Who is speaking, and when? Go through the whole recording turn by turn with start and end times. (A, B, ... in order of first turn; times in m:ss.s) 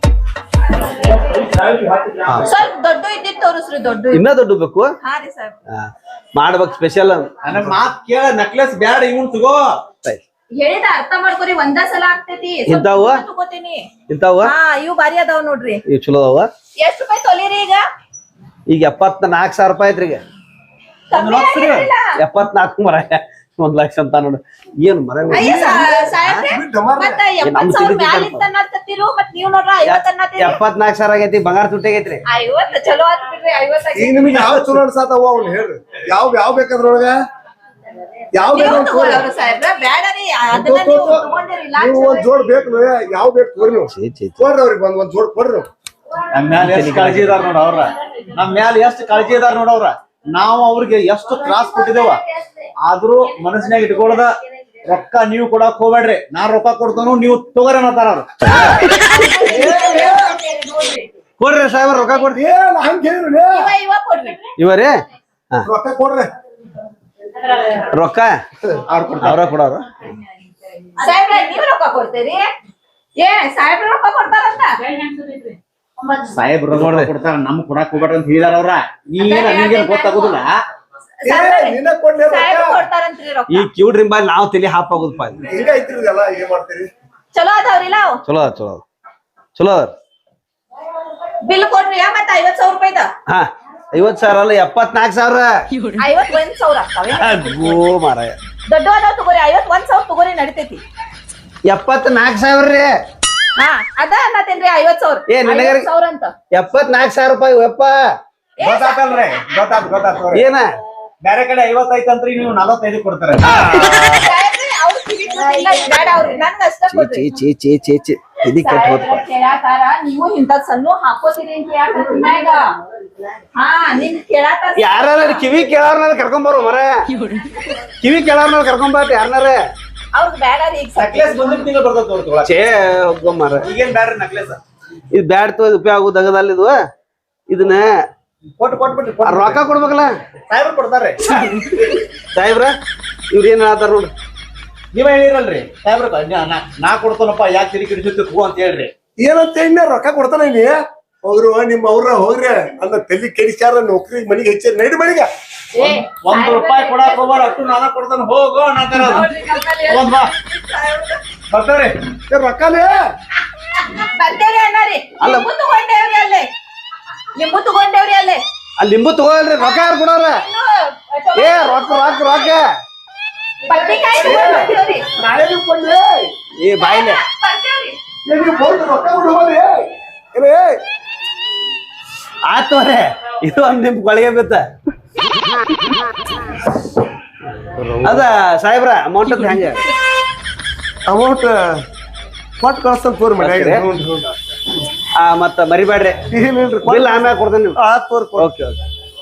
0:01.2-0:02.4 A
0:02.4-0:04.2 B
0:04.1-0:04.9 C
0:05.0-0:05.6 B
0:05.7-0:07.4 C
0:07.4-0:09.7 A
0:10.6-0:13.8 B
0:12.7-0:13.2 C
0:14.1-0:14.5 C
0:14.4-0:15.8 B
0:15.9-0:16.5 C
0:16.8-0:17.8 B
0:18.7-0:20.2 C
0:21.1-0:22.1 B
0:21.1-0:21.9 A
0:22.2-0:26.4 C
0:25.3-0:27.2 D
0:25.3-0:30.6 B
0:27.4-0:28.5 C
0:29.8-0:32.2 C
0:32.3-0:34.6 B
0:34.0-0:37.2 D
0:38.3-0:39.2 D
0:38.5-0:42.3 B
0:40.5-0:41.2 D
0:41.8-0:45.7 D
0:43.9-0:44.4 C
0:46.3-0:52.2 A
0:46.6-0:47.5 C
0:52.8-0:54.3 A
0:54.8-0:58.3 A
0:58.7-1:01.1 B
0:59.5-1:00.3 D
1:01.4-1:02.4 C
1:02.3-1:03.7 D
1:03.5-1:04.5 B
1:04.6-1:05.7 C
1:05.6-1:06.3 D
1:07.9-1:08.4 C
1:08.9-1:09.5 A
1:09.2-1:09.9 C
1:11.0-1:12.5 B
1:13.2-1:15.5 B
1:16.1-1:20.5 A
1:16.7-1:17.1 C
1:19.2-1:20.4 B
1:21.2-1:23.7 B
1:21.3-1:22.8 D
1:23.5-1:25.4 C
1:25.4-1:26.9 D
1:27.3-1:28.2 B
1:28.3-1:28.8 C
1:29.6-1:29.9 C
1:31.5-1:33.1 B
1:33.3-1:35.7 C
1:36.0-1:37.8 B
1:37.1-1:38.4 C
1:38.7-1:40.8 B
1:41.7-1:42.9 C
1:43.6-1:46.3 B
1:45.3-1:45.9 C
1:46.5-1:48.0 C
1:48.6-1:49.4 B
1:48.6-1:50.4 A
1:50.3-1:50.7 C
1:51.2-1:53.6 A
1:53.4-1:54.3 C
1:53.6-1:57.2 B
1:56.9-1:59.2 C
1:58.5-2:02.6 B
2:03.6-2:05.5 B
2:04.8-2:07.0 C
2:08.0-2:09.6 C
2:10.1-2:11.4 B
2:11.0-2:12.6 A
2:12.4-2:13.7 C
2:13.6-2:14.6 A
2:15.1-2:16.8 C
2:17.5-2:18.0 C
2:18.6-2:19.7 A
2:19.2-2:20.2 C
2:20.5-2:21.4 A
2:21.4-2:22.8 C
2:23.3-2:24.1 C
2:24.9-2:28.9 A
2:29.2-2:35.3 D
2:35.8-2:37.6 B
2:35.8-2:39.3 A
2:38.9-2:41.2 B
2:39.9-2:40.3 A
2:41.5-2:41.9 A
2:42.3-2:43.0 D
2:43.9-2:46.5 B
2:45.2-2:45.5 C
2:47.4-2:48.4 B
2:48.8-2:50.4 C
2:49.6-2:52.6 B
2:51.4-2:52.6 C
2:53.7-2:55.0 B
2:54.2-2:56.3 D
2:56.6-2:57.2 C
2:56.8-2:58.0 B
2:58.3-3:00.8 D
3:02.4-3:04.7 C
3:07.7-3:08.3 D
3:08.0-3:09.8 C
3:11.1-3:11.6 D
3:12.6-3:14.4 D
3:13.4-3:13.8 C
3:15.2-3:16.2 C
3:16.3-3:18.5 D
3:16.9-3:17.8 C
3:18.4-3:18.8 C